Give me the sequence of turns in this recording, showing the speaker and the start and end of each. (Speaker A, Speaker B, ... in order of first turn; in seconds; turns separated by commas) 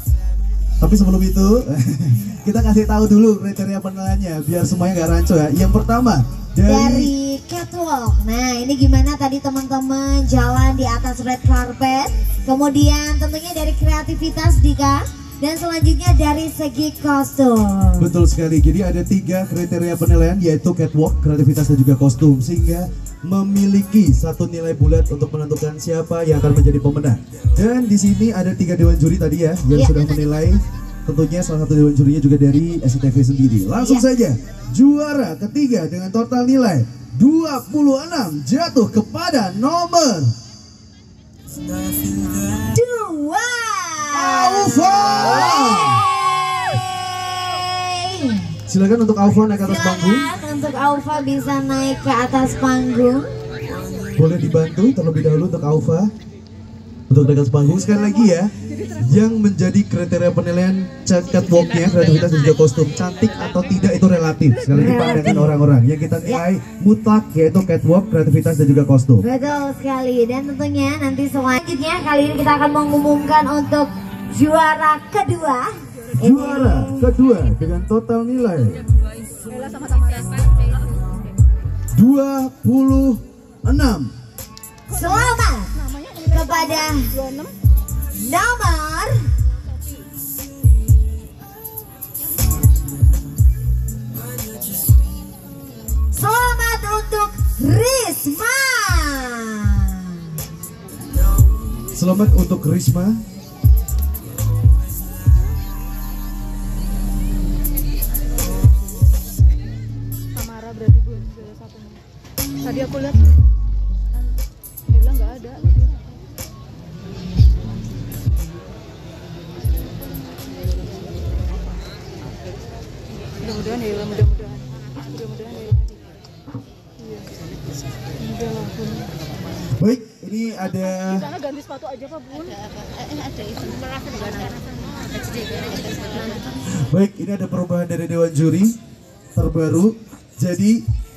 Speaker A: 0.8-7.1, Speaker B: 6.6-18.1, Speaker A: 18.0-40.3, Speaker B: 29.7-30.0, Speaker B: 33.7-34.0, Speaker B: 42.4-48.5, Speaker A: 44.1-46.0, Speaker A: 48.7-50.3, Speaker B: 49.6-53.3, Speaker A: 54.1-56.1, Speaker A: 57.1-69.2, Speaker C: 58.3-58.9, Speaker B: 64.7-65.6, Speaker B: 69.2-77.1, Speaker A: 76.2-78.8, Speaker C: 79.5-80.7, Speaker A: 81.9-84.1, Speaker B: 84.9-87.2, Speaker C: 85.8-87.5, Speaker B: 88.2-89.3, Speaker B: 96.1-100.4, Speaker A: 101.9-103.2, Speaker C: 110.3-112.0, Speaker C: 112.6-113.3, Speaker C: 114.9-115.9, Speaker C: 123.4-125.8, Speaker C: 128.2-129.1, Speaker A: 129.7-131.3, Speaker C: 131.0-132.6, Speaker A: 136.7-138.8, Speaker A: 139.3-140.8